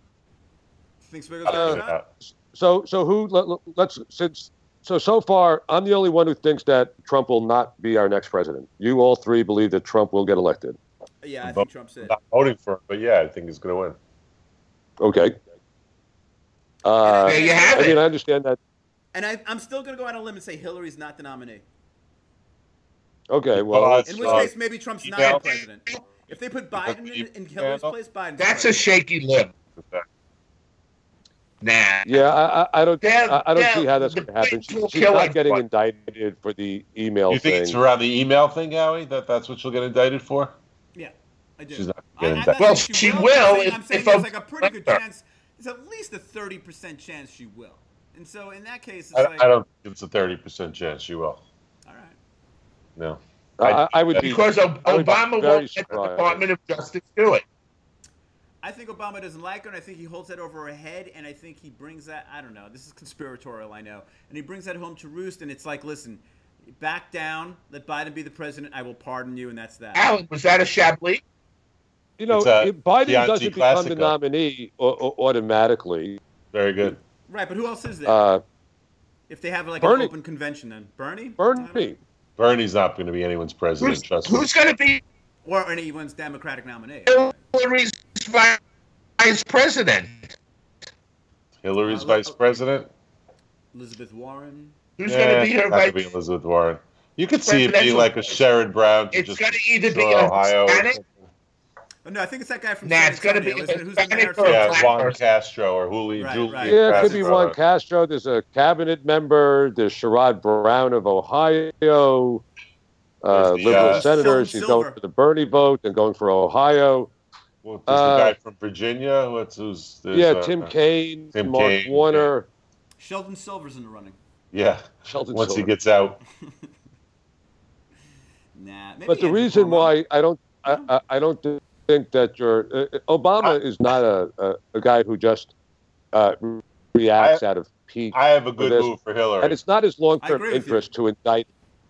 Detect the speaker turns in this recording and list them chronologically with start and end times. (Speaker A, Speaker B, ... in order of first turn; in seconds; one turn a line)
Speaker A: 1.0-2.0
Speaker B: 1.4-2.1
Speaker C: 1.5-10.8
Speaker A: 11.2-12.1
Speaker B: 11.4-14.0
Speaker C: 15.0-15.3
Speaker C: 16.8-18.6
Speaker A: 17.0-17.9
Speaker D: 17.2-18.0
Speaker A: 19.1-21.6
Speaker C: 23.3-24.4
Speaker B: 23.5-24.5
Speaker A: 24.0-28.9
Speaker B: 25.0-25.5
Speaker D: 25.4-26.0
Speaker B: 26.8-27.9
Speaker D: 28.4-29.5
Speaker B: 29.8-30.1
Speaker D: 31.6-32.3
Speaker C: 32.0-37.8
Speaker D: 33.0-35.6
Speaker B: 37.3-40.5
Speaker A: 40.9-49.5
Speaker B: 41.7-42.5
Speaker D: 42.6-45.0
Speaker B: 49.1-51.4
Speaker A: 51.9-52.2
Speaker B: 53.0-54.3
Speaker C: 53.6-56.4
Speaker D: 54.2-57.4
Speaker A: 58.6-70.1
Speaker D: 69.9-71.2
Speaker C: 72.2-76.2
Speaker B: 72.3-74.1
Speaker B: 76.5-77.0
Speaker A: 77.3-78.2
Speaker C: 78.1-78.4
Speaker A: 79.3-81.9
Speaker C: 79.8-80.1
Speaker C: 81.4-82.0
Speaker B: 82.4-84.5
Speaker D: 83.8-85.0
Speaker A: 85.4-87.4
Speaker D: 87.1-88.6
Speaker D: 89.2-90.3
Speaker B: 91.6-92.9
Speaker A: 91.8-92.4
Speaker A: 93.7-94.7
Speaker D: 95.0-96.1
Speaker B: 95.0-101.3
Speaker D: 97.4-98.4
Speaker D: 99.1-101.0
Speaker A: 102.0-104.9
Speaker D: 102.8-105.2
Speaker B: 104.4-107.6
Speaker A: 106.1-107.3
Speaker C: 106.6-112.4
Speaker C: 113.2-117.1
Speaker B: 113.3-114.1
Speaker A: 113.7-115.0
Speaker B: 117.6-120.7
Speaker C: 117.9-118.3
Speaker C: 120.1-122.5
Speaker B: 121.3-122.3
Speaker A: 123.0-124.2
Speaker B: 124.5-126.2
Speaker C: 125.1-125.7
Speaker A: 128.6-129.9
Speaker C: 129.1-135.5
Speaker C: 136.1-138.9
Speaker B: 138.1-139.6
Speaker C: 139.4-141.5
Speaker A: 140.2-140.9